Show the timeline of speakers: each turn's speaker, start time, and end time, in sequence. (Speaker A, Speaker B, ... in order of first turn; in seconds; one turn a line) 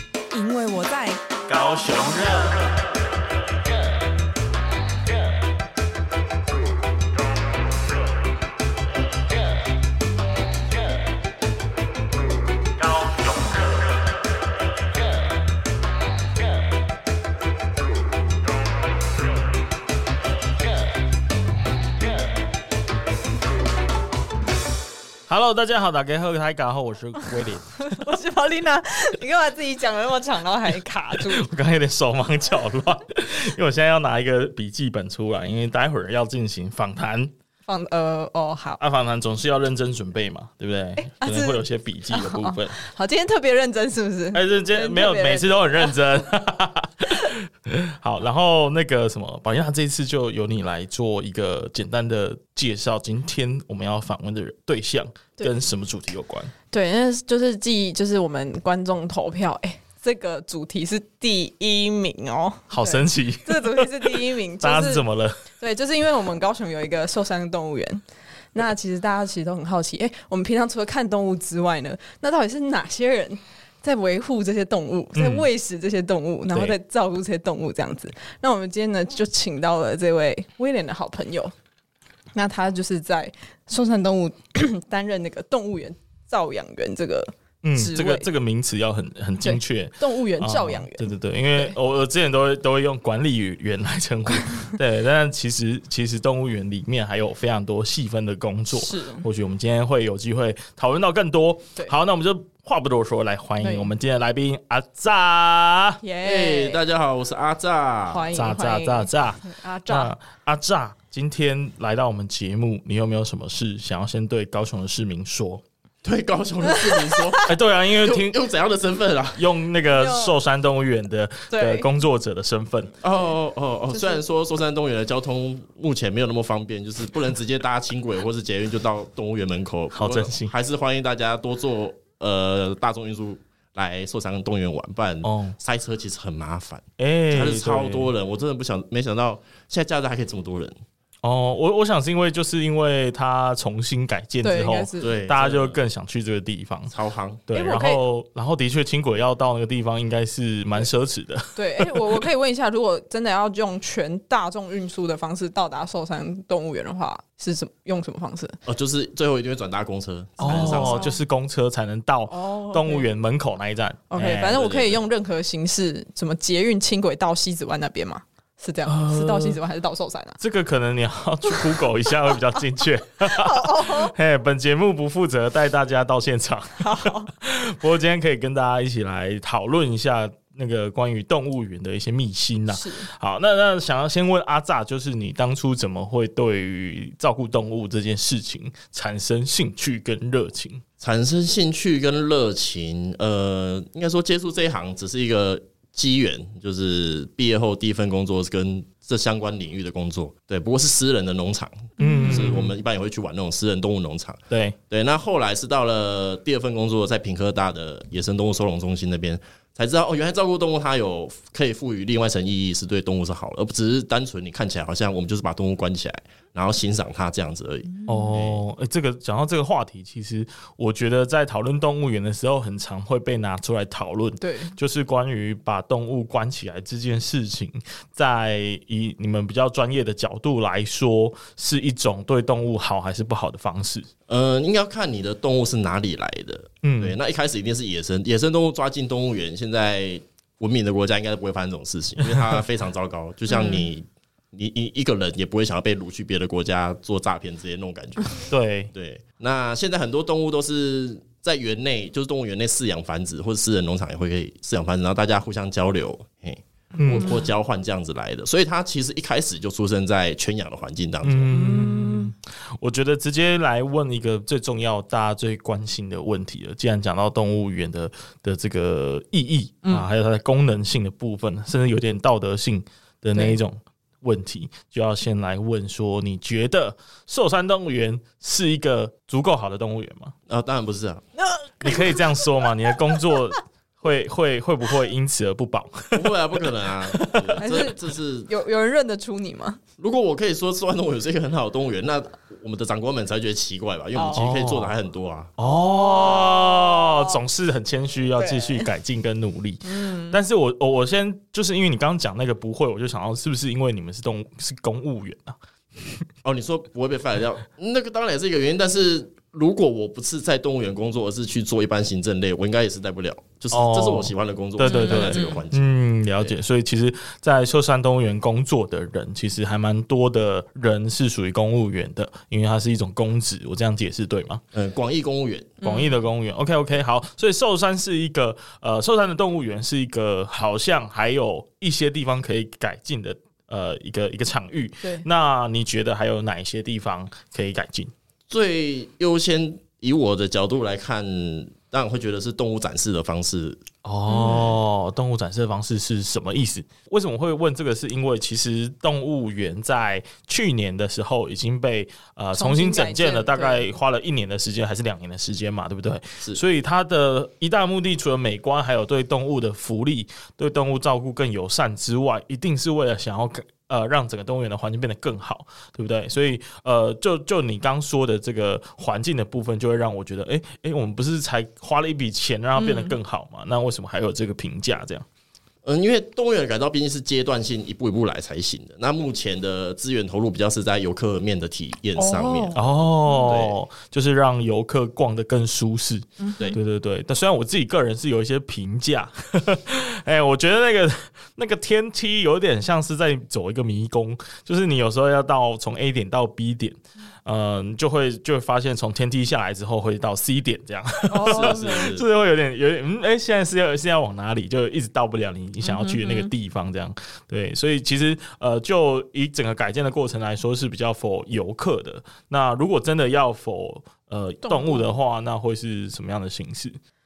Speaker A: 0.3-1.2
Speaker B: 1.5-2.7
Speaker B: 25.3-28.1
Speaker A: 27.9-31.4
Speaker B: 31.1-37.3
Speaker A: 37.6-38.8
Speaker B: 38.8-42.8
Speaker A: 41.0-46.0
Speaker B: 44.3-56.5
Speaker A: 56.7-65.0
Speaker B: 62.7-65.4
Speaker A: 65.6-68.0
Speaker A: 68.5-81.5
Speaker B: 75.1-75.5
Speaker B: 76.5-76.8
Speaker A: 82.3-88.3
Speaker B: 87.6-106.0
Speaker A: 89.4-91.7
Speaker A: 98.8-99.3
Speaker A: 103.6-103.9
Speaker A: 106.0-106.8
Speaker C: 106.2-108.4
Speaker A: 108.1-110.1
Speaker B: 108.3-115.6
Speaker C: 116.0-119.5
Speaker A: 116.7-117.4
Speaker B: 117.4-118.3
Speaker B: 119.3-122.9
Speaker A: 119.8-120.3
Speaker A: 121.5-121.9
Speaker C: 123.0-140.7
Speaker A: 123.9-124.2
Speaker B: 129.9-130.5
Speaker B: 135.2-135.6
Speaker B: 137.0-138.1
Speaker B: 141.2-146.9
Speaker A: 144.4-145.1
Speaker C: 145.0-145.8
Speaker C: 146.9-147.4
Speaker B: 147.5-152.2
Speaker A: 147.5-148.0
Speaker A: 151.6-158.6
Speaker C: 158.7-161.1
Speaker A: 160.4-161.2
Speaker B: 160.4-164.6
Speaker A: 162.3-163.1
Speaker A: 164.1-170.4
Speaker C: 164.5-165.0
Speaker B: 168.8-169.6
Speaker B: 170.4-190.8
Speaker A: 173.2-174.1
Speaker A: 176.8-177.3
Speaker A: 182.7-183.1
Speaker C: 191.0-218.6
Speaker A: 202.0-202.5
Speaker B: 202.0-202.7
Speaker B: 204.5-204.8
Speaker A: 217.9-218.3
Speaker B: 218.1-234.1
Speaker A: 224.4-224.8
Speaker C: 234.3-248.4
Speaker B: 236.8-237.2
Speaker B: 242.2-242.6
Speaker A: 243.5-243.9
Speaker B: 248.5-248.9
Speaker C: 248.9-261.6
Speaker B: 256.9-257.4
Speaker B: 261.2-280.3
Speaker A: 261.5-262.3
Speaker A: 273.3-273.6
Speaker C: 280.5-281.2
Speaker A: 281.5-282.2
Speaker B: 281.8-287.6
Speaker C: 286.1-288.5
Speaker A: 287.6-289.8
Speaker C: 290.0-295.5
Speaker A: 294.1-294.4
Speaker B: 294.3-294.9
Speaker B: 295.6-305.6
Speaker A: 295.7-297.4
Speaker A: 298.4-298.9
Speaker A: 299.8-300.4
Speaker C: 306.4-316.6
Speaker B: 313.7-324.6
Speaker A: 314.8-315.6
Speaker C: 324.7-325.8
Speaker A: 325.8-326.2
Speaker B: 325.8-338.1
Speaker C: 338.5-343.8
Speaker B: 344.0-375.2
Speaker A: 344.3-344.8
Speaker A: 352.5-353.9
Speaker A: 372.8-373.1
Speaker C: 375.8-383.8
Speaker A: 382.1-383.5
Speaker B: 382.7-417.0
Speaker A: 386.4-386.8
Speaker A: 401.3-402.1
Speaker C: 401.4-402.2
Speaker A: 405.8-406.5
Speaker A: 414.6-415.1